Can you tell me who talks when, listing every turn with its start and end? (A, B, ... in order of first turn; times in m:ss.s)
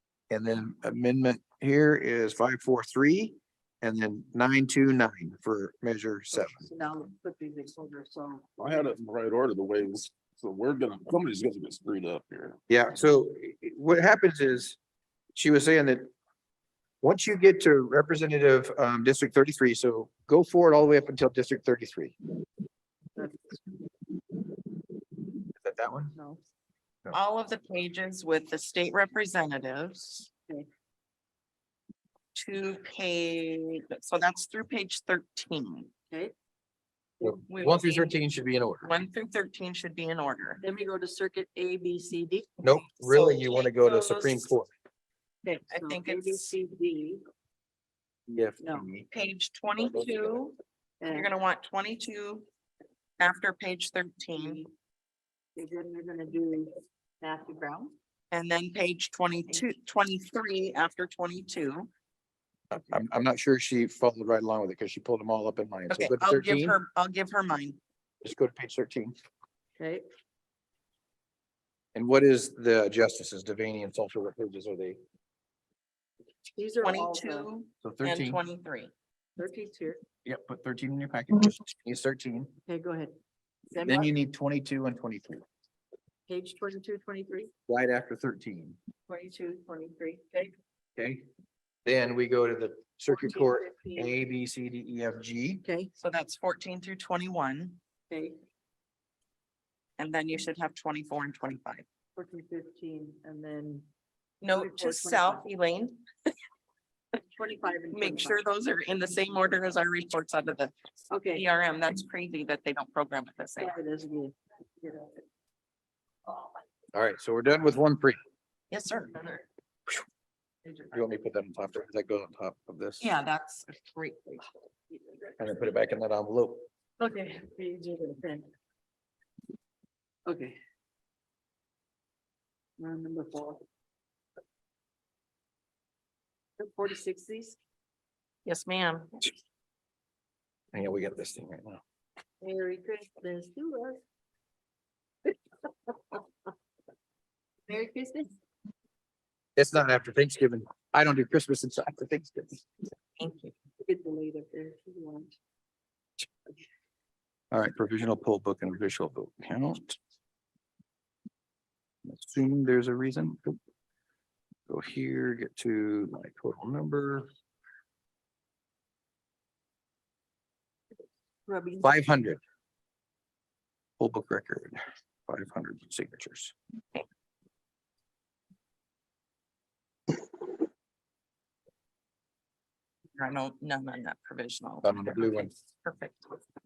0:00.3-0:06.7 A
0:06.3-0:08.5 B
0:08.6-0:12.6 C
0:12.7-0:14.8 A
0:15.4-0:16.1 A
0:17.0-0:22.2 A
0:23.2-0:23.8 B
0:25.6-0:26.2 A
0:26.2-0:26.4 B
0:27.1-0:30.3 D
0:32.4-0:35.9 D
0:37.2-0:39.0 A
0:37.5-0:38.2 D
0:38.8-0:40.6 D
0:40.6-0:42.5 B
0:42.6-0:44.7 A
0:42.9-0:44.5 D
0:45.4-0:47.2 B
0:45.7-0:46.5 D
0:48.3-0:49.1 A
0:48.6-0:48.9 B
0:49.1-0:50.6 D
0:51.0-0:51.3 B
0:51.1-0:52.5 D
0:53.2-0:54.6 D
0:54.3-0:54.7 B
0:55.6-0:57.9 B
0:58.3-1:01.9 D
1:02.7-1:06.8 A
1:05.9-1:07.8 D
1:08.2-1:09.2 A
1:09.8-1:10.0 B
1:12.0-1:15.0 A
1:16.6-1:17.5 B
1:16.8-1:18.9 D
1:17.8-1:18.4 A
1:19.4-1:20.0 B
1:20.2-1:22.6 A
1:22.7-1:23.1 B
1:23.7-1:24.1 B
1:23.8-1:25.4 A
1:26.3-1:27.5 B
1:27.7-1:28.8 A
1:29.1-1:30.5 B
1:31.0-1:31.3 A
1:31.8-1:35.6 A
1:33.1-1:34.2 B
1:35.6-1:35.9 B
1:36.0-1:37.8 D
1:38.1-1:38.4 B
1:40.0-1:41.8 D
1:42.2-1:43.9 B
1:44.4-1:46.0 D
1:44.5-1:45.5 B
1:47.2-1:48.4 B
1:47.9-1:50.7 D
1:51.1-1:51.4 B
1:51.3-1:53.8 D
1:53.6-1:55.2 B
1:56.9-1:58.2 A
1:58.7-1:59.2 D
2:00.9-2:03.1 A
2:03.0-2:04.4 D
2:04.9-2:05.2 B
2:05.4-2:06.6 A
2:07.0-2:08.5 B
2:10.3-2:10.6 B
2:12.8-2:13.6 B
2:16.6-2:17.6 B
2:18.4-2:19.2 D
2:20.7-2:21.8 A
2:22.4-2:24.0 B
2:25.9-2:26.2 B
2:27.7-2:28.3 B
2:29.6-2:32.6 A
2:33.2-2:33.5 D
2:33.8-2:35.4 B
2:37.5-2:40.0 A
2:42.0-2:43.6 A
2:44.7-2:47.3 A
2:51.5-2:52.1 B
2:51.8-2:52.4 A
2:54.0-2:56.5 A
3:03.2-3:06.4 D
3:04.8-3:05.5 A